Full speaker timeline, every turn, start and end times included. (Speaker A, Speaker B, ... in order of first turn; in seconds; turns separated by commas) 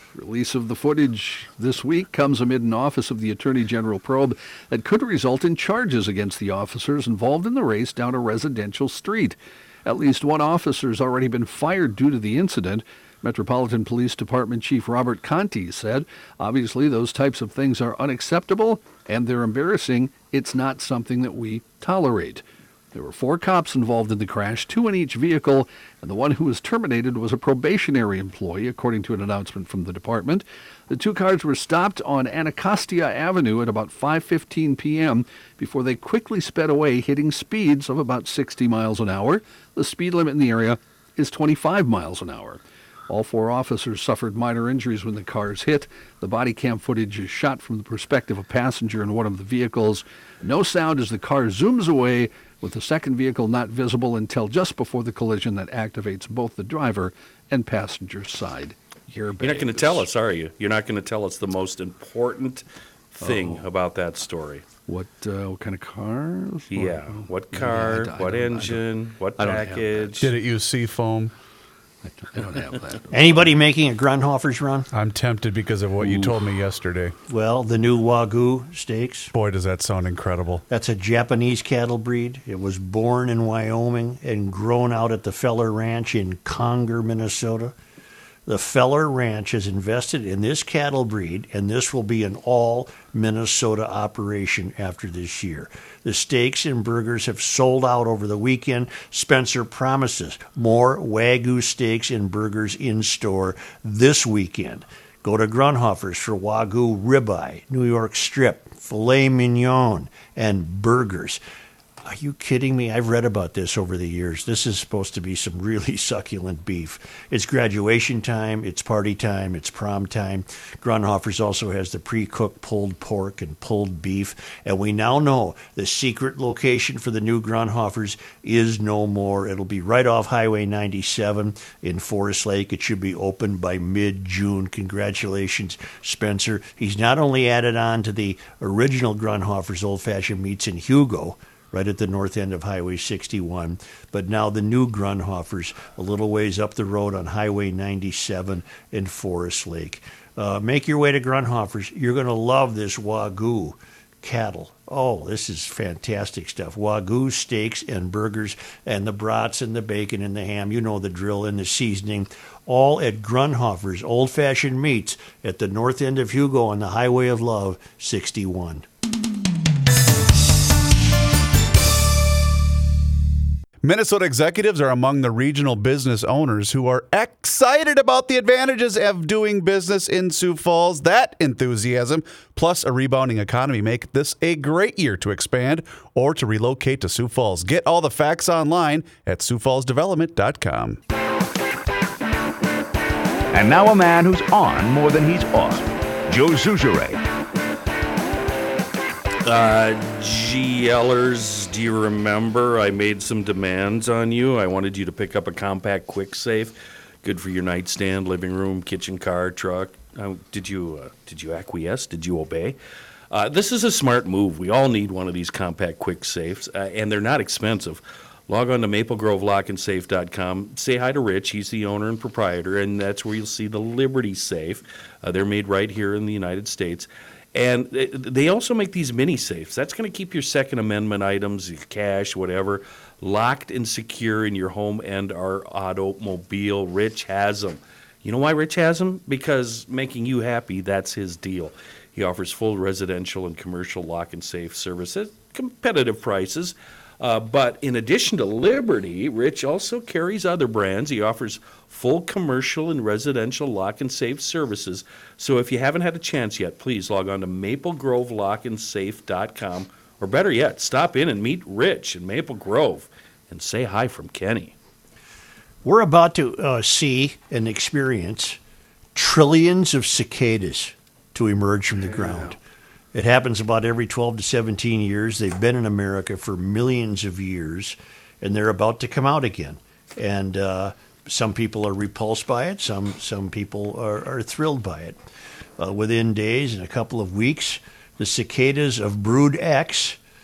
Speaker A: 0.1-60.1, Speaker B: 59.4-62.6, Speaker B: 63.1-64.7, Speaker A: 63.2-63.6, Speaker A: 64.9-70.3, Speaker B: 66.7-70.3, Speaker C: 70.2-71.3, Speaker A: 72.0-73.5, Speaker D: 73.1-74.9, Speaker C: 74.9-77.1, Speaker A: 76.0-76.4, Speaker D: 77.3-79.3, Speaker C: 79.3-80.6, Speaker D: 80.7-87.7, Speaker D: 88.5-111.4, Speaker D: 112.0-168.8, Speaker C: 173.8-191.0, Speaker E: 193.5-197.2, Speaker B: 199.4-212.8, Speaker B: 213.3-264.7, Speaker D: 265.8-268.6, Speaker D: 269.1-272.6, Speaker D: 273.1-285.1, Speaker D: 285.8-290.2